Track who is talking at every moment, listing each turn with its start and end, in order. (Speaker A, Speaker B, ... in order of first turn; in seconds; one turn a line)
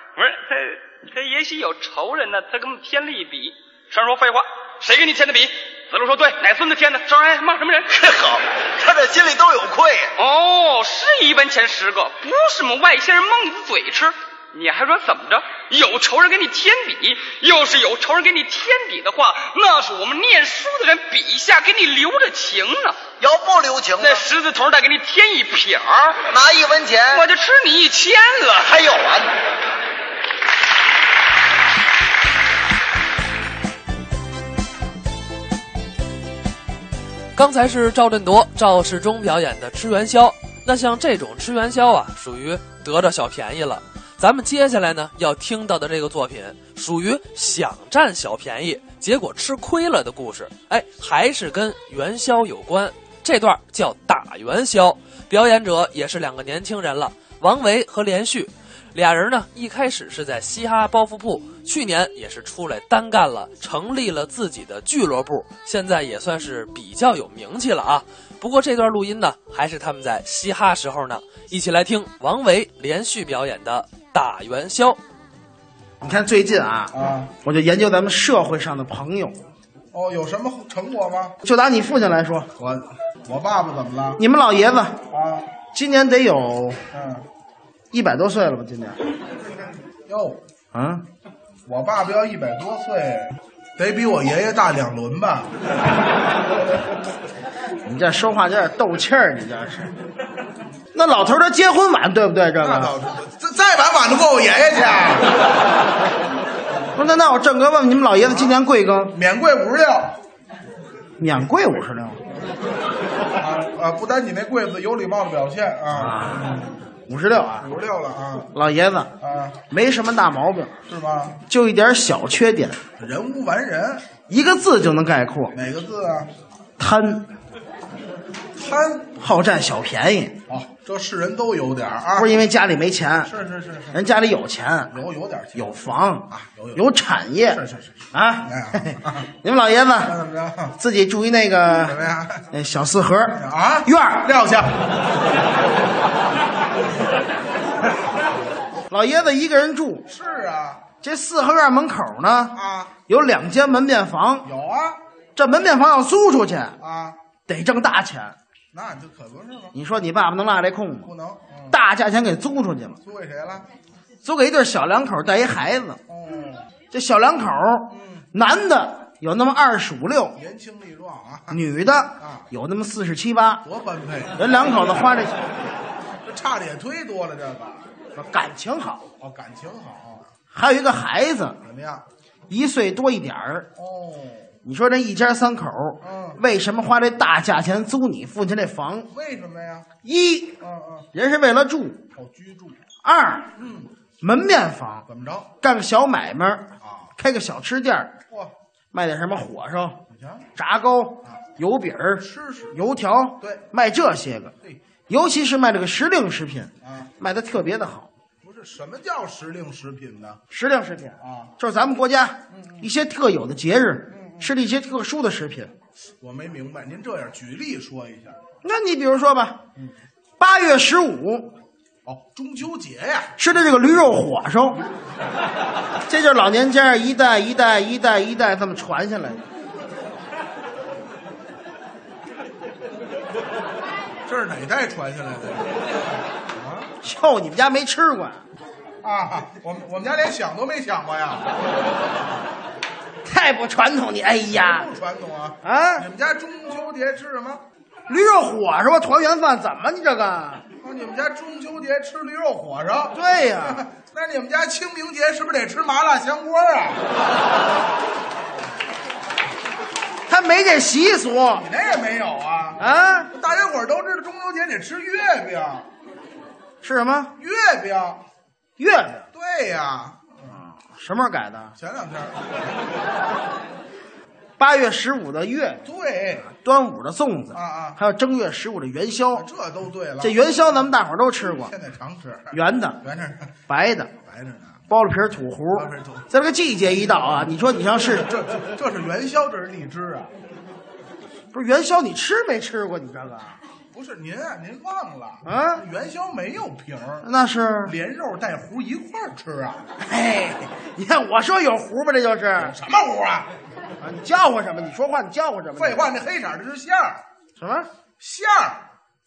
Speaker A: 0.2-7.9
Speaker B: 7.9-10.1
Speaker A: 10.2-23.0
Speaker B: 23.2-24.2
Speaker A: 24.0-26.3
Speaker B: 26.3-27.2
Speaker A: 27.1-28.7
Speaker B: 28.6-29.3
Speaker C: 37.4-75.0
Speaker D: 76.0-79.4
Speaker E: 76.9-77.3
Speaker E: 79.9-81.4
Speaker D: 81.4-82.5
Speaker E: 82.6-84.2
Speaker D: 84.2-85.0
Speaker E: 85.1-85.5
Speaker D: 85.7-86.8
Speaker E: 86.9-87.2
Speaker D: 87.9-89.0
Speaker E: 90.1-90.4
Speaker D: 90.7-91.1
Speaker E: 91.7-95.5
Speaker D: 97.8-99.9
Speaker D: 100.9-103.0
Speaker E: 102.6-105.3
Speaker D: 107.0-109.2
Speaker E: 109.1-110.2
Speaker D: 111.2-112.2
Speaker E: 113.4-116.6
Speaker D: 115.9-117.7
Speaker E: 117.6-118.5
Speaker D: 118.5-119.2
Speaker E: 119.2-119.6
Speaker D: 119.7-120.8
Speaker E: 120.9-121.4
Speaker D: 121.4-122.8
Speaker E: 123.0-124.1
Speaker D: 124.3-125.6
Speaker E: 125.5-126.3
Speaker D: 126.8-127.3
Speaker E: 128.6-129.1
Speaker D: 129.1-130.4
Speaker E: 130.5-132.3
Speaker D: 132.2-133.3
Speaker E: 133.3-134.0
Speaker D: 133.9-135.0
Speaker E: 134.9-135.7
Speaker D: 135.6-140.2
Speaker E: 136.3-136.8
Speaker E: 137.5-137.9
Speaker E: 138.5-139.3
Speaker E: 140.1-140.8
Speaker D: 140.8-142.0
Speaker E: 141.7-142.4
Speaker D: 142.5-144.3
Speaker E: 143.4-144.8
Speaker D: 148.9-150.1
Speaker E: 150.1-150.9
Speaker D: 151.0-154.5
Speaker E: 152.5-152.9
Speaker E: 154.5-155.0
Speaker D: 155.4-156.8
Speaker E: 156.8-157.2
Speaker D: 157.5-158.4
Speaker E: 158.7-159.7
Speaker D: 159.7-161.1
Speaker E: 161.1-161.7
Speaker D: 161.7-163.0
Speaker E: 163.0-163.7
Speaker D: 164.2-166.0
Speaker E: 166.1-166.7
Speaker D: 166.9-170.4
Speaker E: 167.9-168.2
Speaker E: 170.4-171.6
Speaker D: 171.5-173.7
Speaker E: 172.2-172.4
Speaker E: 173.7-174.6
Speaker D: 174.3-175.4
Speaker E: 176.2-177.8
Speaker D: 178.2-179.1
Speaker E: 179.2-180.3
Speaker D: 180.5-181.6
Speaker E: 181.7-182.0
Speaker D: 182.5-183.7
Speaker E: 183.8-184.5
Speaker D: 184.7-189.1
Speaker E: 186.0-186.4
Speaker E: 189.1-189.9
Speaker D: 190.0-190.6
Speaker E: 190.6-191.1
Speaker D: 191.1-192.1
Speaker E: 192.1-192.8
Speaker D: 193.0-193.6
Speaker E: 193.6-193.9
Speaker D: 194.2-195.1
Speaker E: 195.1-195.5
Speaker D: 195.6-198.2
Speaker E: 196.8-197.1
Speaker D: 198.9-200.0
Speaker E: 200.1-200.5
Speaker D: 200.6-204.5
Speaker E: 202.2-202.7
Speaker D: 205.1-208.1
Speaker E: 206.8-207.1
Speaker E: 208.4-210.4
Speaker D: 210.5-215.7
Speaker E: 211.2-211.5
Speaker E: 212.5-212.9
Speaker E: 214.1-214.4
Speaker E: 216.2-218.4
Speaker D: 218.6-219.6
Speaker D: 220.4-221.6
Speaker E: 222.1-223.3
Speaker D: 223.4-224.8
Speaker D: 226.1-229.5
Speaker E: 234.3-235.8
Speaker E: 236.5-236.9
Speaker D: 237.0-238.4
Speaker E: 239.0-241.6
Speaker D: 243.2-244.9
Speaker E: 244.5-247.6
Speaker D: 245.6-246.1
Speaker D: 248.1-250.7
Speaker E: 250.8-257.0
Speaker D: 253.1-253.9
Speaker D: 260.3-261.7
Speaker E: 261.6-262.8
Speaker D: 262.8-263.3
Speaker E: 263.3-265.9
Speaker D: 266.8-267.3
Speaker E: 267.4-268.2
Speaker D: 268.8-269.3
Speaker E: 269.3-270.5
Speaker D: 270.5-271.7
Speaker E: 271.8-272.6
Speaker D: 274.6-275.9
Speaker E: 275.9-276.5
Speaker D: 276.5-279.5
Speaker E: 277.5-278.0
Speaker E: 279.4-280.4
Speaker D: 280.2-281.7
Speaker E: 281.5-283.5
Speaker D: 282.5-283.0
Speaker D: 283.7-284.1
Speaker E: 284.2-284.8
Speaker D: 284.9-288.3
Speaker E: 285.8-286.2
Speaker E: 286.9-290.3
Speaker D: 291.5-293.6
Speaker E: 293.9-297.2
Speaker D: 295.4-295.8
Speaker D: 297.2-297.9
Speaker E: 297.9-299.9
Speaker D: 300.0-302.8
Speaker E: 302.6-303.5
Speaker D: 304.0-306.0
Speaker E: 305.8-307.2
Speaker D: 307.6-307.9
Speaker E: 308.2-308.8